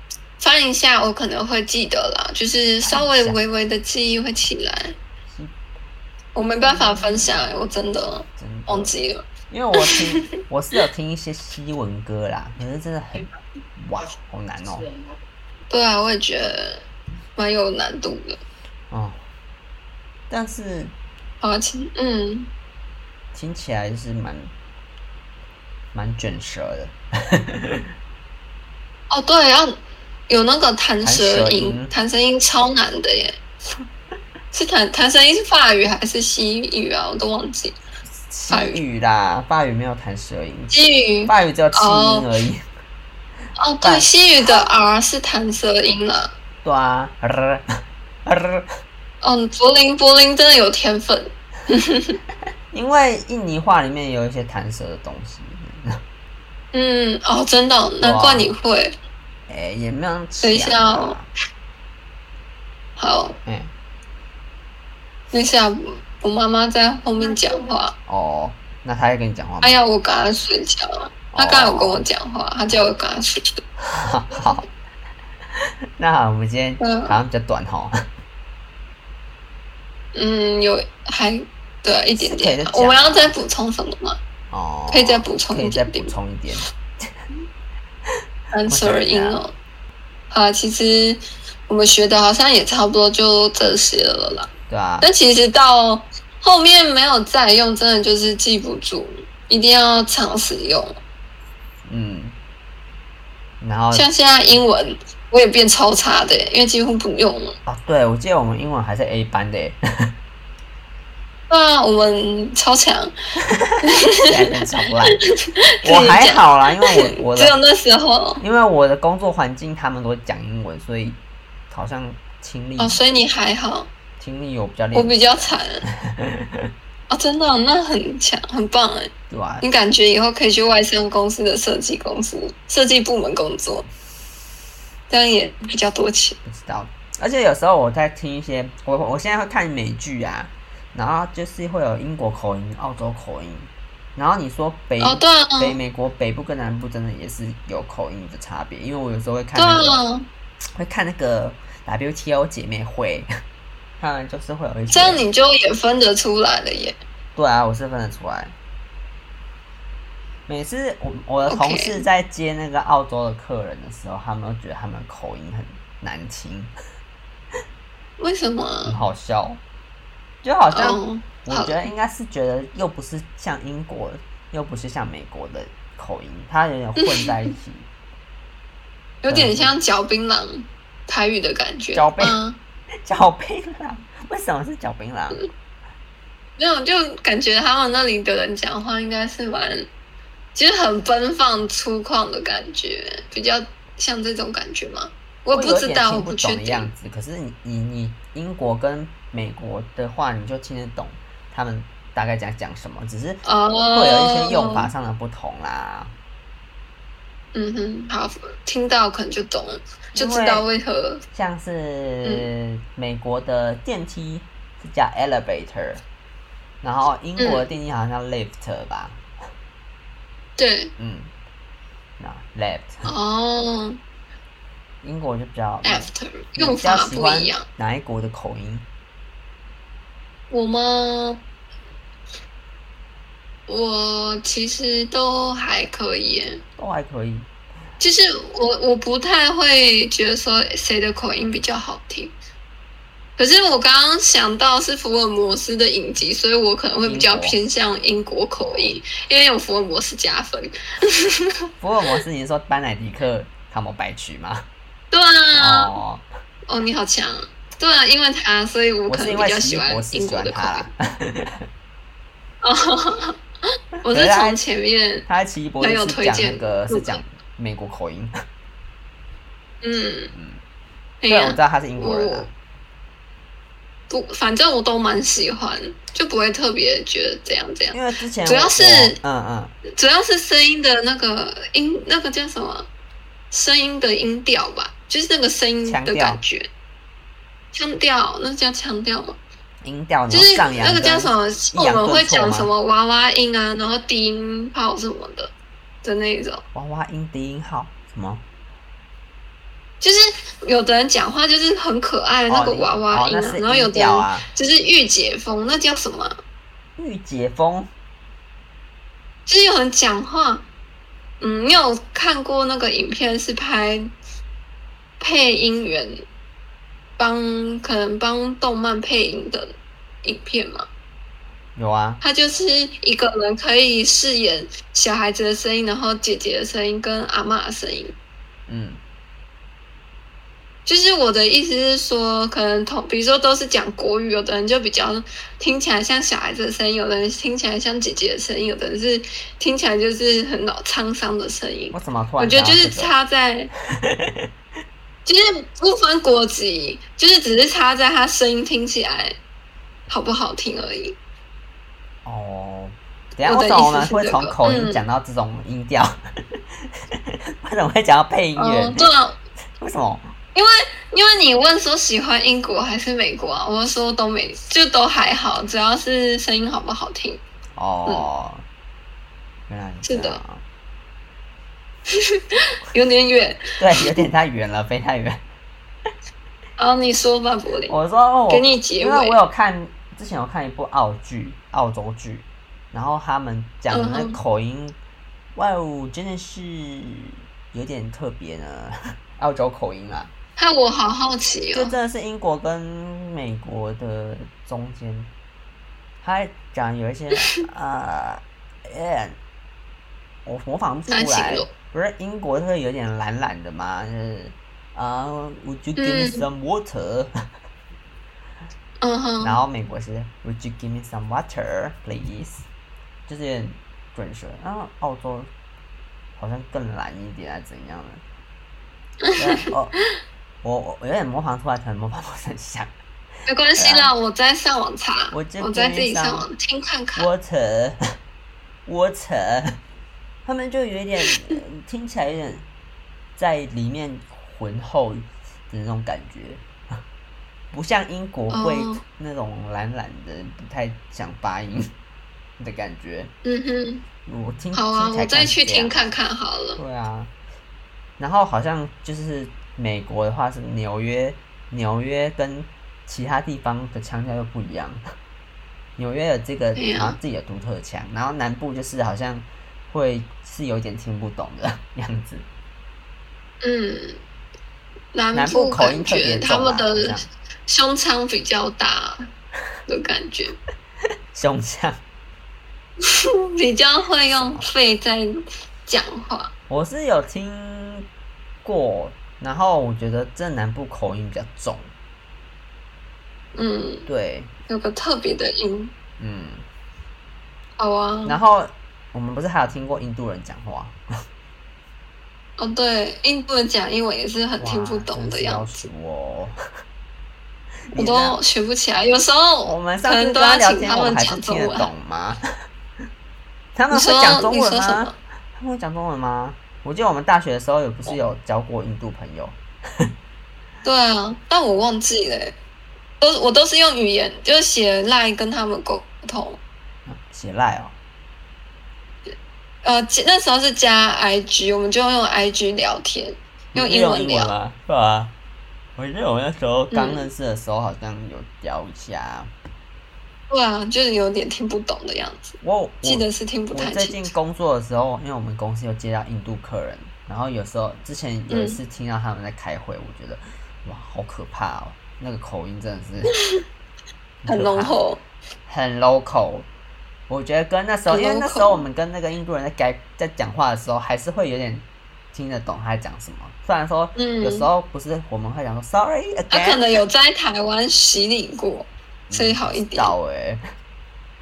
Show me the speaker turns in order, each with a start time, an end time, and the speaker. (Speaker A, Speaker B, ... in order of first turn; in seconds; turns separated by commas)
Speaker A: 0.4-5.0, Speaker B: 2.9-3.4, Speaker B: 5.3-5.5, Speaker A: 6.3-10.0, Speaker B: 6.7-7.4, Speaker B: 8.4-8.9, Speaker B: 9.5-14.9, Speaker A: 15.7-16.8, Speaker A: 17.4-18.4, Speaker B: 18.9-19.2, Speaker B: 20.3-20.9, Speaker A: 21.4-22.5, Speaker B: 23.3-24.5, Speaker B: 25.9-27.8, Speaker A: 29.1-29.8, Speaker A: 30.3-33.4, Speaker B: 31.0-31.9, Speaker A: 34.5-37.8, Speaker B: 38.0-42.6, Speaker A: 38.5-38.8, Speaker A: 40.7-42.3, Speaker A: 43.6-46.3, Speaker B: 43.8-44.1, Speaker B: 46.6-47.6, Speaker B: 48.2-48.7, Speaker A: 49.2-52.2, Speaker B: 52.7-56.0, Speaker A: 56.7-59.0, Speaker B: 58.0-58.5, Speaker B: 59.5-61.3, Speaker A: 60.4-61.2, Speaker A: 63.0-63.4, Speaker B: 63.4-63.7, Speaker A: 65.3-67.9, Speaker B: 68.1-69.8, Speaker A: 69.6-73.6, Speaker B: 71.3-72.0, Speaker B: 73.8-74.7, Speaker B: 76.0-77.9, Speaker A: 76.8-77.2, Speaker A: 80.1-84.2, Speaker B: 82.2-83.3, Speaker B: 84.5-86.7, Speaker A: 84.9-86.1, Speaker A: 88.5-89.5, Speaker B: 88.7-89.4, Speaker A: 90.3-94.5, Speaker B: 94.7-95.1, Speaker A: 95.0-101.0, Speaker B: 101.9-102.3, Speaker B: 103.6-104.1, Speaker A: 103.9-107.6, Speaker B: 107.6-110.1, Speaker A: 111.5-113.1, Speaker B: 113.5-115.2, Speaker A: 113.8-114.5, Speaker A: 115.1-118.4, Speaker B: 115.8-117.6, Speaker B: 118.4-123.0, Speaker A: 122.8-123.9, Speaker B: 124.2-126.6, Speaker A: 124.9-125.8, Speaker A: 127.1-133.8, Speaker B: 129.3-129.7, Speaker A: 135.1-136.4, Speaker B: 136.4-150.0, Speaker A: 145.0-145.8, Speaker A: 149.6-150.3, Speaker B: 150.8-153.3, Speaker B: 154.0-155.2, Speaker A: 154.9-157.0, Speaker B: 157.3-158.5, Speaker B: 160.5-166.7, Speaker A: 161.5-162.0, Speaker A: 168.2-168.9, Speaker B: 168.8-169.6, Speaker B: 170.4-177.9, Speaker A: 170.7-171.8, Speaker A: 177.0-177.3, Speaker A: 179.2-182.6, Speaker B: 179.3-179.7, Speaker B: 181.9-182.4, Speaker B: 183.0-185.5, Speaker A: 186.6-189.9, Speaker A: 190.5-196.9, Speaker B: 195.5-203.4, Speaker A: 203.4-204.9, Speaker B: 203.9-206.1, Speaker A: 207.5-211.2, Speaker B: 210.1-210.7, Speaker B: 211.3-216.0, Speaker A: 212.2-212.5, Speaker B: 216.8-219.2, Speaker A: 217.4-217.6, Speaker A: 220.6-220.9, Speaker B: 221.0-221.3, Speaker B: 222.2-223.1, Speaker A: 223.1-224.0, Speaker B: 225.0-228.8, Speaker A: 225.8-227.6, Speaker A: 230.5-231.4, Speaker A: 233.7-236.6, Speaker B: 236.8-237.5, Speaker A: 238.0-242.3, Speaker A: 243.4-251.6, Speaker B: 247.0-247.6, Speaker B: 251.8-254.7, Speaker A: 255.1-255.9, Speaker B: 255.6-256.2, Speaker A: 256.7-260.9, Speaker B: 259.1-261.5, Speaker A: 262.6-263.4, Speaker B: 264.0-264.6, Speaker A: 264.1-265.3, Speaker B: 265.3-268.3, Speaker A: 265.8-267.2, Speaker A: 269.8-270.3, Speaker B: 270.3-270.6, Speaker A: 271.2-272.5, Speaker B: 271.3-272.5, Speaker A: 274.1-279.2, Speaker B: 277.9-279.8, Speaker A: 279.9-282.9, Speaker A: 283.5-286.7, Speaker B: 285.8-286.4, Speaker A: 287.7-289.4, Speaker B: 289.8-292.7, Speaker A: 290.3-295.5, Speaker A: 296.0-296.6, Speaker B: 296.7-298.4, Speaker A: 300.0-306.4, Speaker B: 302.5-304.5, Speaker B: 307.0-307.9, Speaker A: 309.5-310.6, Speaker A: 311.4-314.1, Speaker A: 315.2-316.2, Speaker A: 317.2-320.9, Speaker B: 321.8-322.2, Speaker A: 322.2-328.1, Speaker B: 328.7-329.0, Speaker A: 330.9-343.7, Speaker B: 341.9-343.1, Speaker A: 345.2-349.3, Speaker A: 350.1-351.1, Speaker B: 352.2-356.1, Speaker A: 353.4-355.0, Speaker B: 357.1-359.1, Speaker A: 358.6-359.4, Speaker B: 359.8-360.3, Speaker A: 360.5-367.4, Speaker B: 367.8-368.6, Speaker B: 369.7-370.6, Speaker A: 370.1-370.4, Speaker A: 372.1-373.7, Speaker B: 373.8-375.4, Speaker A: 376.8-377.9, Speaker B: 377.9-385.0, Speaker A: 378.5-379.4, Speaker A: 383.9-384.4, Speaker B: 385.5-390.3, Speaker A: 390.6-391.9, Speaker B: 391.7-395.3, Speaker B: 396.2-399.4, Speaker B: 400.4-407.3, Speaker A: 401.1-401.7, Speaker A: 406.0-406.4, Speaker A: 409.0-409.6, Speaker B: 409.4-412.6, Speaker B: 413.3-415.5, Speaker B: 416.4-418.2, Speaker A: 419.2-419.6, Speaker B: 419.4-419.9, Speaker B: 420.6-422.9, Speaker A: 423.5-427.3, Speaker B: 423.8-424.1, Speaker B: 425.3-426.5, Speaker B: 427.1-428.0, Speaker B: 428.9-429.8, Speaker B: 430.4-432.6, Speaker B: 433.4-436.6, Speaker B: 437.7-441.9, Speaker A: 438.5-439.0, Speaker B: 442.6-443.3, Speaker A: 443.4-444.0, Speaker B: 444.2-446.1, Speaker A: 444.7-446.8, Speaker B: 446.8-447.3, Speaker B: 448.2-455.0, Speaker B: 456.0-462.5, Speaker A: 456.8-457.2, Speaker A: 463.6-464.2, Speaker A: 465.1-467.1, Speaker B: 465.3-467.2, Speaker A: 467.7-469.3, Speaker A: 469.9-470.6, Speaker B: 471.3-472.0, Speaker A: 473.0-476.5, Speaker B: 474.3-474.6, Speaker B: 476.7-478.1, Speaker B: 478.6-481.9, Speaker A: 483.5-484.1, Speaker B: 484.1-484.5, Speaker A: 484.7-485.9, Speaker B: 486.2-486.7, Speaker A: 487.8-488.4, Speaker B: 488.2-491.0, Speaker A: 492.6-495.9, Speaker B: 494.6-496.5, Speaker B: 497.9-498.4, Speaker A: 497.9-501.9, Speaker B: 499.6-502.4, Speaker B: 503.8-509.6, Speaker A: 503.9-505.1, Speaker A: 510.8-512.5, Speaker A: 513.2-516.6, Speaker B: 517.0-518.0, Speaker A: 519.8-524.5, Speaker B: 523.7-525.3, Speaker B: 526.0-529.5, Speaker A: 526.9-527.3, Speaker A: 530.5-534.3, Speaker B: 532.6-543.4, Speaker A: 538.5-538.8, Speaker B: 544.4-545.0, Speaker A: 544.5-545.2, Speaker B: 545.7-546.7, Speaker B: 547.3-556.9, Speaker A: 548.1-548.8, Speaker A: 554.1-554.7, Speaker A: 556.5-560.1, Speaker B: 559.3-560.6